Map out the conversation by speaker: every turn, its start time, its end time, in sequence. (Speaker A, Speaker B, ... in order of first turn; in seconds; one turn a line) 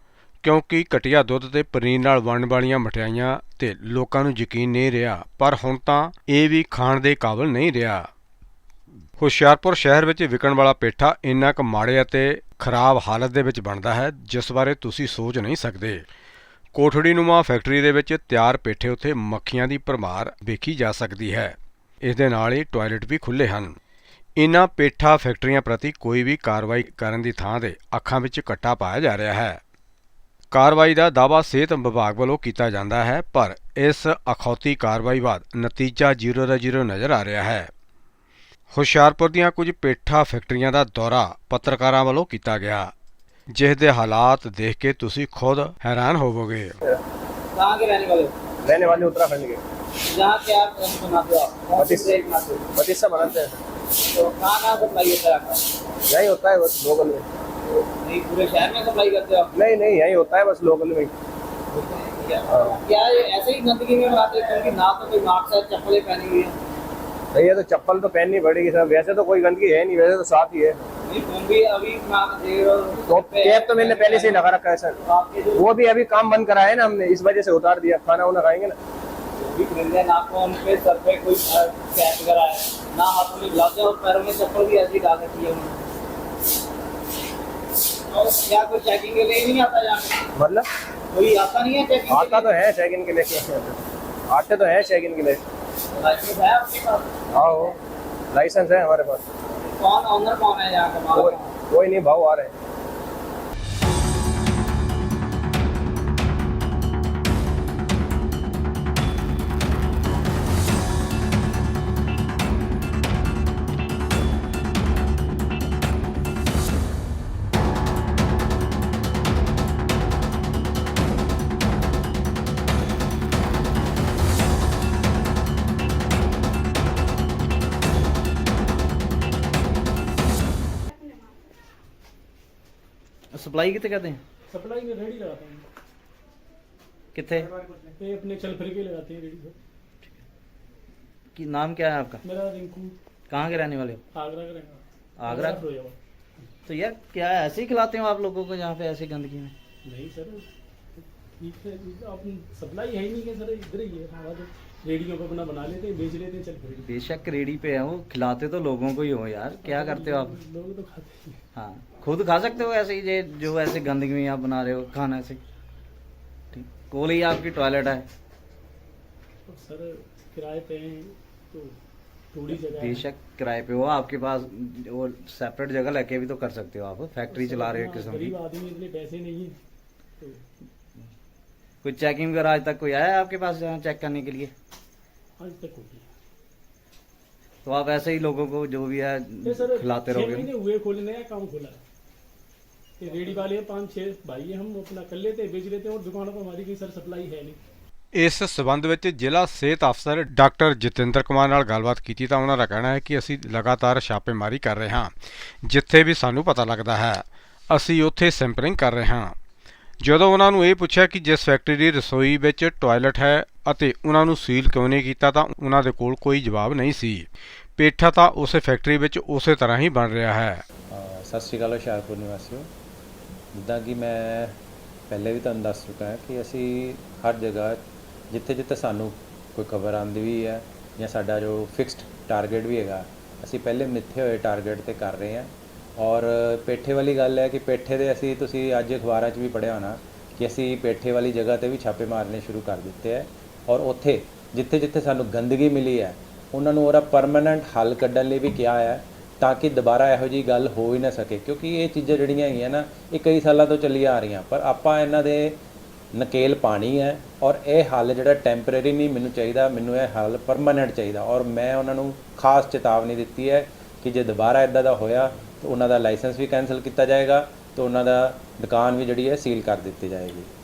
Speaker A: 0.4-8.1
Speaker A: 9.2-16.0
Speaker A: 16.7-23.8
Speaker A: 24.4-29.6
Speaker A: 30.5-37.7
Speaker A: 38.7-42.9
Speaker A: 43.5-46.8
Speaker B: 47.5-48.4
Speaker C: 48.6-49.6
Speaker B: 50.1-52.7
Speaker C: 51.8-52.2
Speaker C: 52.7-53.6
Speaker B: 54.0-55.7
Speaker C: 56.1-57.2
Speaker B: 58.0-59.5
Speaker C: 59.5-61.1
Speaker B: 61.7-66.6
Speaker C: 62.5-62.8
Speaker C: 67.3-70.8
Speaker B: 71.0-74.5
Speaker C: 73.1-75.0
Speaker B: 75.0-75.8
Speaker C: 75.5-78.8
Speaker B: 79.4-85.8
Speaker B: 88.1-90.2
Speaker C: 90.3-90.7
Speaker B: 91.1-92.6
Speaker C: 92.1-93.8
Speaker C: 94.3-95.4
Speaker B: 96.0-97.1
Speaker C: 97.3-97.8
Speaker C: 98.3-99.2
Speaker B: 99.8-101.5
Speaker C: 101.1-102.5
Speaker D: 133.3-134.2
Speaker E: 134.5-135.7
Speaker D: 137.1-137.5
Speaker E: 138.0-139.6
Speaker D: 141.3-142.2
Speaker E: 142.2-142.9
Speaker D: 143.3-144.0
Speaker E: 144.1-145.9
Speaker D: 145.2-145.6
Speaker D: 146.6-149.5
Speaker E: 149.8-150.5
Speaker E: 151.0-156.9
Speaker D: 156.8-160.4
Speaker E: 159.6-161.4
Speaker D: 161.5-165.4
Speaker D: 166.5-168.1
Speaker E: 169.5-171.8
Speaker E: 172.3-173.1
Speaker D: 172.5-178.3
Speaker E: 177.3-179.6
Speaker D: 181.8-184.5
Speaker E: 185.4-186.1
Speaker D: 187.6-190.5
Speaker E: 189.4-191.8
Speaker E: 193.0-197.6
Speaker A: 198.1-205.1
Speaker A: 205.6-209.3
Speaker A: 210.0-217.2
Speaker A: 217.8-220.6
Speaker F: 220.9-222.7
Speaker F: 223.5-224.6
Speaker F: 225.1-255.6
Speaker F: 256.1-270.5